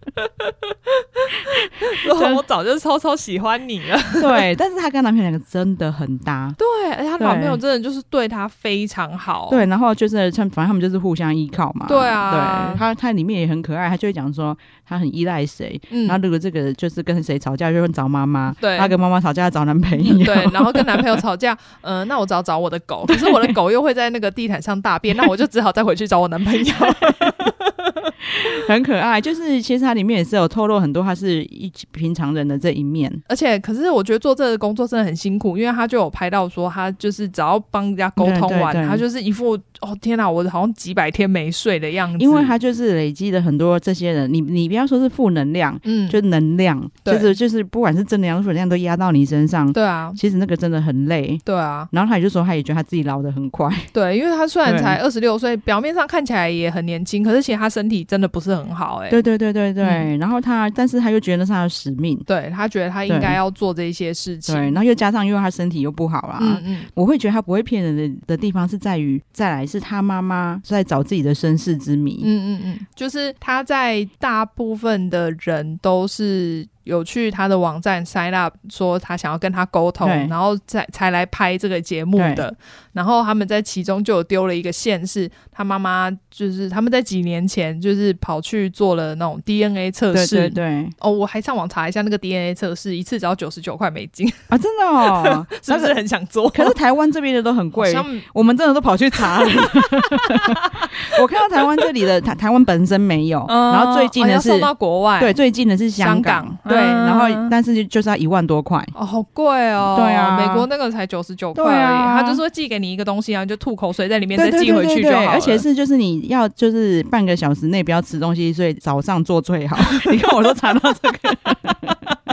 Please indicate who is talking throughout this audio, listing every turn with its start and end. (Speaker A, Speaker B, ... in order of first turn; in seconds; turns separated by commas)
Speaker A: 0.2-4.5, Speaker B: 1.5-2.4, Speaker B: 4.2-6.6, Speaker A: 6.6-9.7, Speaker B: 7.2-7.6, Speaker B: 9.5-21.2, Speaker A: 11.9-12.8, Speaker A: 15.9-16.2, Speaker A: 18.6-18.9, Speaker A: 20.0-28.1, Speaker B: 23.1-23.5, Speaker B: 26.9-27.5, Speaker B: 28.3-33.2, Speaker A: 33.3-42.5, Speaker B: 38.2-39.0, Speaker B: 42.2-53.9, Speaker A: 45.8-46.2, Speaker A: 47.0-47.3, Speaker A: 49.7-50.2, Speaker A: 51.5-51.9, Speaker A: 53.9-59.2, Speaker B: 54.7-55.0, Speaker B: 59.1-62.3, Speaker A: 59.8-60.1, Speaker A: 62.3-64.8, Speaker B: 63.1-63.4, Speaker B: 64.5-72.3, Speaker A: 66.4-66.9, Speaker A: 72.2-96.8, Speaker B: 80.0-80.3, Speaker B: 82.2-82.5, Speaker B: 90.1-90.9, Speaker B: 94.5-96.0, Speaker B: 96.5-108.9, Speaker A: 97.7-98.2, Speaker A: 99.4-101.9, Speaker A: 103.5-105.3, Speaker A: 106.0-107.5, Speaker A: 108.9-115.7, Speaker B: 109.9-110.7, Speaker B: 111.5-112.4, Speaker B: 114.4-122.0, Speaker A: 119.8-120.4